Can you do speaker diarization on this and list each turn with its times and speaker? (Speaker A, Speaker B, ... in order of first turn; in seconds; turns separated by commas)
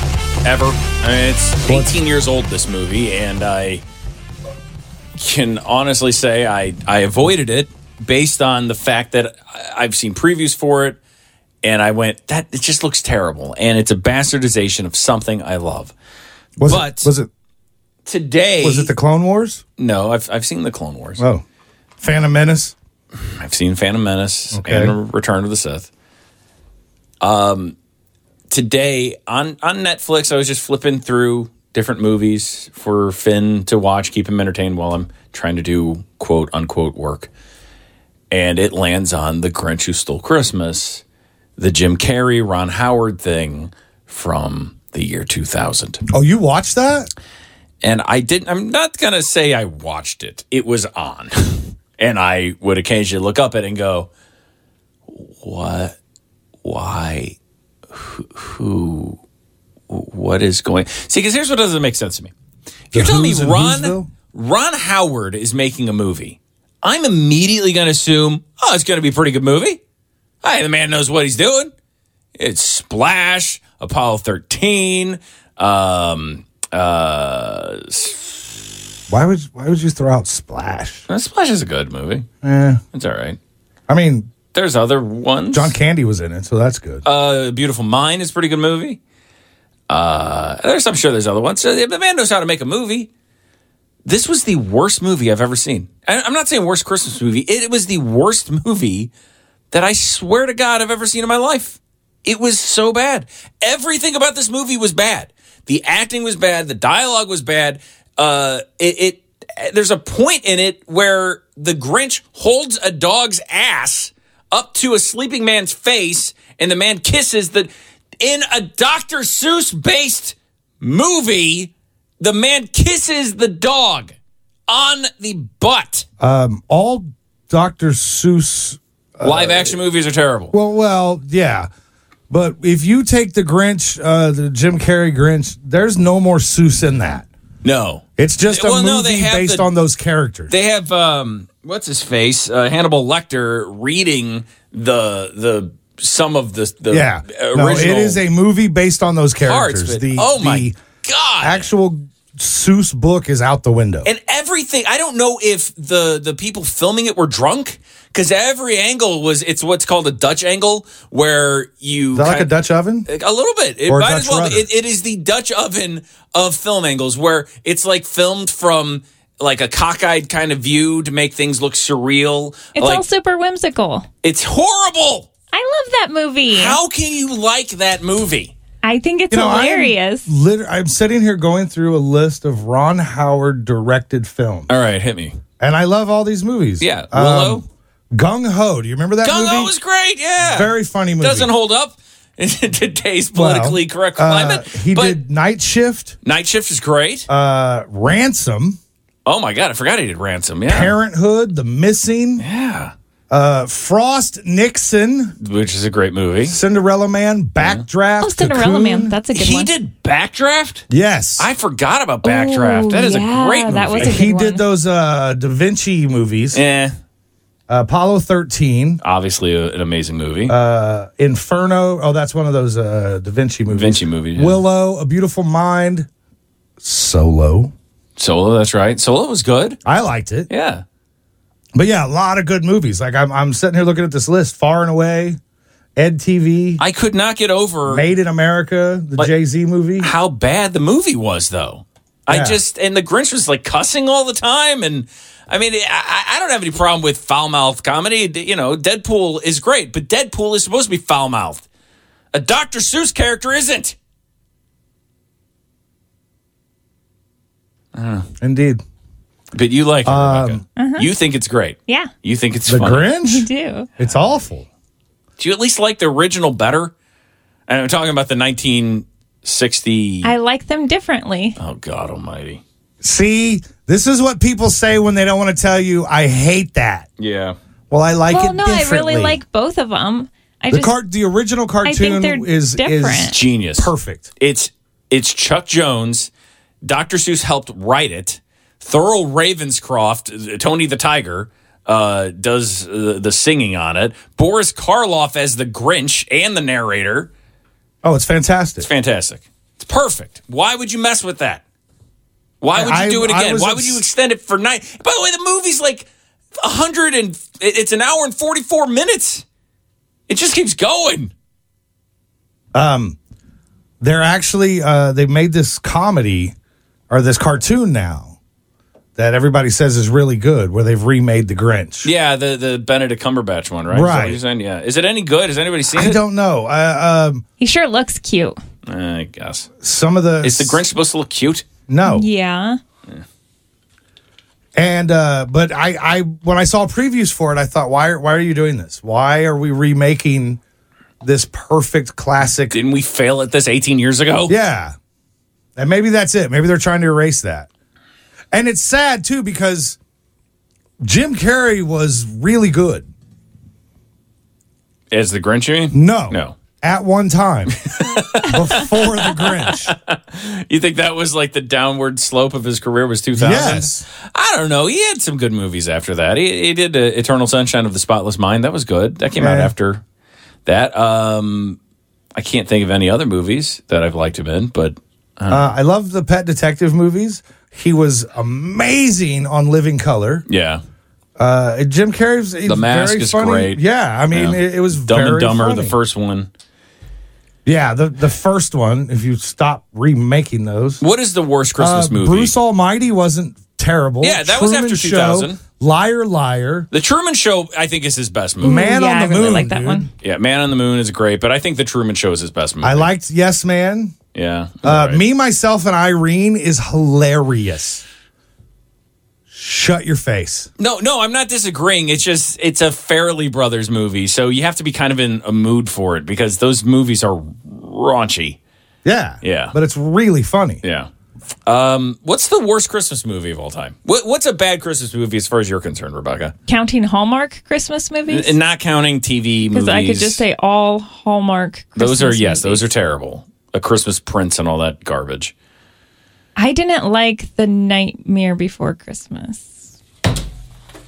Speaker A: 0.4-3.8, Speaker B: 1.7-2.0, Speaker A: 5.2-11.0, Speaker A: 11.6-15.9, Speaker B: 16.6-17.3, Speaker A: 16.6-17.1, Speaker A: 18.1-18.9, Speaker B: 18.6-19.6, Speaker A: 19.8-21.2, Speaker B: 21.2-21.4, Speaker B: 22.0-22.8, Speaker A: 23.2-25.9, Speaker B: 24.5-24.9, Speaker A: 27.2-27.8, Speaker A: 28.5-37.3, Speaker A: 38.3-41.0, Speaker A: 41.6-46.0, Speaker B: 46.1-47.1, Speaker A: 47.8-54.1, Speaker A: 55.1-56.0, Speaker A: 56.6-57.4, Speaker A: 57.9-59.2, Speaker A: 59.9-62.3, Speaker A: 62.9-69.8, Speaker B: 62.9-64.1, Speaker A: 70.4-71.7, Speaker A: 72.4-78.4, Speaker B: 79.1-81.0, Speaker A: 81.1-82.3, Speaker B: 82.4-82.8, Speaker A: 82.9-83.4, Speaker B: 83.9-84.3, Speaker A: 84.5-85.7, Speaker B: 85.5-87.0, Speaker A: 87.0-89.0, Speaker A: 89.9-93.1, Speaker A: 94.1-99.1, Speaker A: 99.7-124.2, Speaker A: 124.7-126.1, Speaker B: 126.2-129.8, Speaker A: 129.2-130.5, Speaker B: 130.5-131.7, Speaker B: 132.3-137.2, Speaker A: 137.6-139.7, Speaker B: 138.2-140.5, Speaker A: 140.5-148.2, Speaker B: 146.9-150.8, Speaker A: 149.4-151.7, Speaker B: 151.4-154.1, Speaker A: 154.0-162.5, Speaker B: 162.2-163.1, Speaker A: 163.1-173.0, Speaker B: 163.9-164.7, Speaker C: 172.8-174.1, Speaker A: 174.2-175.3, Speaker C: 175.5-176.8, Speaker A: 176.5-178.5, Speaker C: 178.8-180.3, Speaker B: 179.3-184.7, Speaker A: 184.7-185.4, Speaker B: 185.6-189.7, Speaker A: 186.8-187.6, Speaker A: 189.2-195.2, Speaker B: 190.4-191.5, Speaker B: 193.3-196.2, Speaker A: 196.2-197.3, Speaker B: 197.3-198.8, Speaker A: 199.2-200.9, Speaker B: 200.7-202.4, Speaker A: 202.4-202.9, Speaker B: 203.3-205.3, Speaker A: 205.4-206.6, Speaker B: 206.5-209.2, Speaker A: 207.6-207.8, Speaker C: 208.2-209.7, Speaker A: 209.3-210.8, Speaker B: 210.9-211.5, Speaker A: 211.4-214.2, Speaker C: 212.2-214.6, Speaker B: 213.7-216.6, Speaker A: 216.5-217.0, Speaker B: 217.7-219.0, Speaker A: 219.0-220.6, Speaker B: 220.5-226.1, Speaker A: 223.7-224.6, Speaker B: 226.8-227.7, Speaker A: 228.2-229.8, Speaker B: 229.8-230.5, Speaker A: 230.5-230.8, Speaker B: 231.8-235.4, Speaker B: 236.0-236.8, Speaker A: 236.8-238.1, Speaker B: 237.8-240.1, Speaker A: 240.0-251.6, Speaker B: 242.3-242.6, Speaker A: 252.3-254.0, Speaker A: 257.9-258.3, Speaker B: 258.4-258.8, Speaker A: 259.5-263.1, Speaker B: 260.0-260.6, Speaker C: 260.8-261.1, Speaker B: 262.7-264.7, Speaker C: 263.2-263.9, Speaker A: 265.4-266.9, Speaker A: 267.7-270.3, Speaker C: 270.2-271.6, Speaker A: 271.6-272.6, Speaker B: 273.0-277.1, Speaker A: 277.2-277.6, Speaker B: 277.9-279.4, Speaker C: 278.3-280.9, Speaker B: 280.7-284.3, Speaker C: 281.8-283.4, Speaker A: 283.3-286.3, Speaker A: 286.8-297.3, Speaker B: 298.0-298.9, Speaker A: 298.8-301.6, Speaker A: 302.6-306.1, Speaker B: 302.7-304.0, Speaker A: 306.6-309.4, Speaker A: 310.3-311.3, Speaker B: 312.7-313.2, Speaker B: 314.0-316.5, Speaker B: 317.1-318.3, Speaker B: 319.1-322.1, Speaker A: 322.0-326.2, Speaker B: 323.9-324.4, Speaker B: 325.9-327.4, Speaker C: 327.6-328.6, Speaker A: 328.9-329.7, Speaker B: 329.8-330.8, Speaker A: 330.4-331.6, Speaker B: 331.9-332.3, Speaker C: 332.1-332.8, Speaker B: 334.7-340.6, Speaker B: 341.2-342.8, Speaker A: 342.7-344.5, Speaker B: 344.5-344.9, Speaker B: 345.8-347.7, Speaker B: 348.5-350.0, Speaker B: 351.0-353.1, Speaker A: 355.1-356.6, Speaker B: 355.9-357.8, Speaker A: 357.9-370.0, Speaker B: 358.4-359.9, Speaker B: 363.3-364.0, Speaker B: 369.4-369.7, Speaker A: 370.6-371.8, Speaker A: 372.4-375.7, Speaker B: 375.5-380.4, Speaker A: 380.5-380.8, Speaker B: 381.4-385.9, Speaker A: 382.6-386.5, Speaker B: 387.6-391.0, Speaker A: 391.0-392.5, Speaker B: 391.8-396.9, Speaker A: 394.2-395.6, Speaker A: 396.9-398.8, Speaker B: 398.6-400.1, Speaker C: 398.6-400.1, Speaker A: 400.2-403.1, Speaker B: 402.8-404.1, Speaker A: 404.3-405.2, Speaker B: 404.8-408.0, Speaker B: 409.5-410.7, Speaker A: 410.8-418.6, Speaker B: 419.0-420.8, Speaker A: 419.4-419.7, Speaker A: 420.8-421.1, Speaker A: 421.6-426.5, Speaker C: 426.7-428.5, Speaker A: 428.3-430.4, Speaker C: 429.7-432.9, Speaker A: 431.9-435.5, Speaker C: 436.6-439.8